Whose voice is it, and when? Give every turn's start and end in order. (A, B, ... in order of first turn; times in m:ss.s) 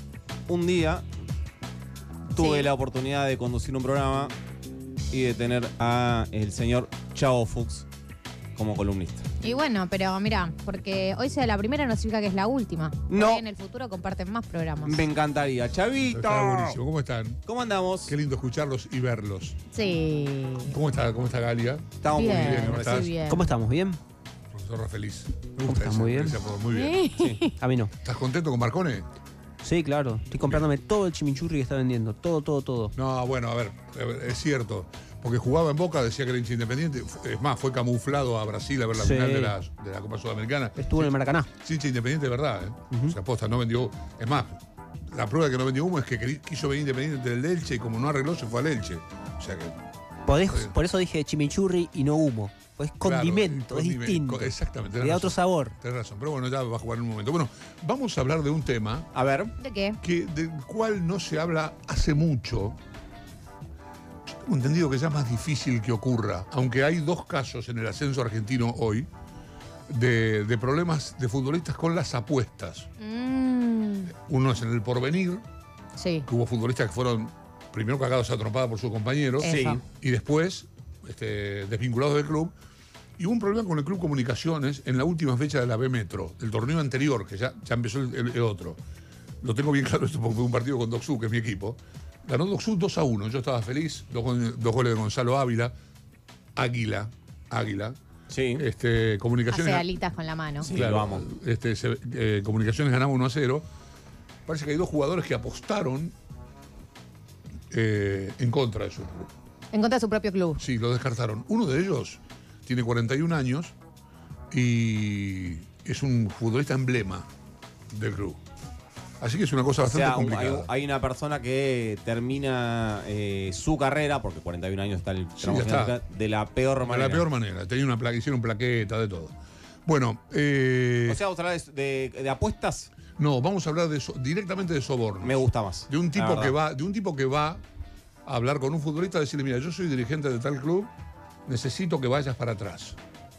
0:00.5-0:01.0 A
0:02.3-0:02.7 B
0:02.3-0:04.3 A
0:05.1-0:07.8 A
0:08.6-0:09.2 A
0:09.4-0:15.0 B
0:13.1-0:13.4 A
0:14.8-0:16.8 A
0:16.0-0:17.4 C
0:17.4-0:18.1 A
0:18.1-0:19.6 C
0:19.7-0:20.7 B
0:20.6-0:23.1 C
0:22.0-0:23.1 A
0:22.1-0:23.5 B
0:23.3-0:24.0 D
0:24.5-0:27.0 C
0:25.6-0:26.4 D
0:26.8-0:27.5 B
0:27.6-0:27.9 D
0:28.0-0:29.0 C
0:29.6-0:32.9 D
0:33.0-0:44.6 C
0:38.9-0:39.6 D
0:40.8-0:41.5 D
0:45.1-0:49.8 C
0:50.2-0:55.7 D
0:50.4-0:50.8 C
0:53.0-0:59.1 C
0:59.1-0:59.5 A
0:59.6-1:00.0 B
1:00.0-1:02.8 C
1:04.4-1:09.1 C
1:09.9-1:12.9 C
1:13.0-1:14.1 B
1:14.1-1:15.4 C
1:16.0-1:16.3 B
1:16.3-1:22.5 C
1:19.4-1:19.8 B
1:19.4-1:19.8 A
1:23.2-1:28.8 C
1:29.4-1:35.7 C
1:36.6-1:37.9 C
1:38.3-1:38.6 A
1:38.6-1:39.8 C
1:39.5-1:40.7 B
1:40.6-1:41.2 A
1:40.6-1:43.6 C
1:44.4-1:46.1 C
1:47.7-1:49.3 C
1:49.7-1:50.6 B
1:50.6-1:53.7 C
1:54.5-1:57.2 C
1:57.9-1:58.4 C
1:59.2-2:00.7 C
1:59.8-2:07.2 A
2:05.4-2:06.0 C
2:06.8-2:09.3 C
2:09.8-2:11.2 C
2:11.0-2:12.9 A
2:13.2-2:17.6 C
2:15.2-2:16.6 A
2:18.2-2:20.9 C
2:21.5-2:23.0 C